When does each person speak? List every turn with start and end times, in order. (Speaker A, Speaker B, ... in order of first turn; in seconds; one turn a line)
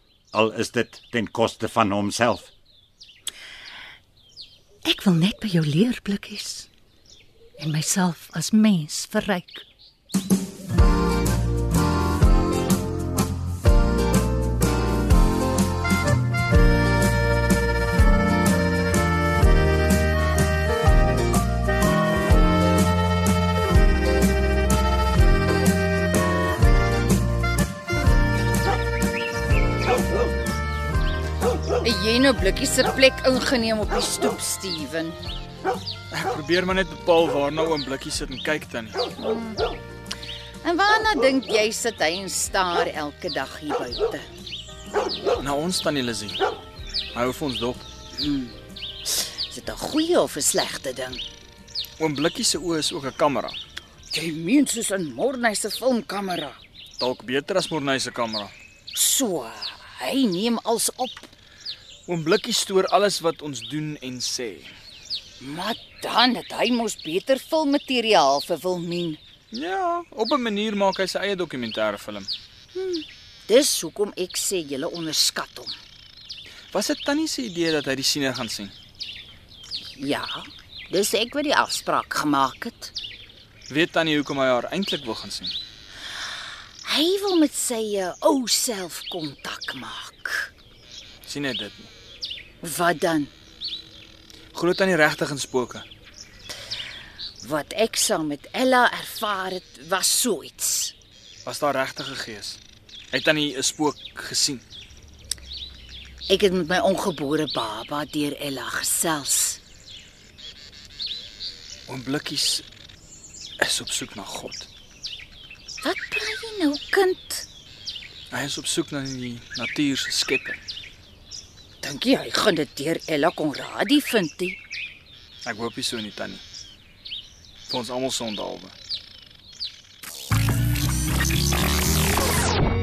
Speaker A: 0.3-2.5
Speaker B: 4.8-6.7
Speaker B: 7.6-9.6
Speaker C: 31.8-35.2
Speaker D: 36.1-39.0
Speaker C: 39.2-39.6
Speaker C: 40.6-44.2
Speaker D: 45.4-46.4
Speaker D: 47.1-47.8
Speaker C: 48.1-51.2
Speaker D: 52.0-53.6
Speaker C: 54.1-56.6
Speaker D: 57.0-58.5
Speaker C: 58.9-61.3
Speaker D: 62.0-64.8
Speaker C: 65.4-69.2
Speaker D: 69.5-72.3
Speaker C: 72.7-75.7
Speaker D: 76.7-78.7
Speaker C: 80.0-82.9
Speaker D: 83.7-85.5
Speaker C: 86.8-90.5
Speaker D: 91.2-91.9
Speaker C: 92.6-93.3
Speaker D: 94.5-95.8
Speaker C: 97.4-100.9
Speaker D: 101.5-102.6
Speaker D: 103.1-104.6
Speaker C: 106.3-109.6
Speaker D: 111.9-112.6
Speaker D: 113.6-114.7
Speaker C: 115.8-117.5
Speaker D: 118.3-120.6
Speaker C: 121.8-124.6
Speaker D: 125.4-126.4
Speaker D: 127.7-128.7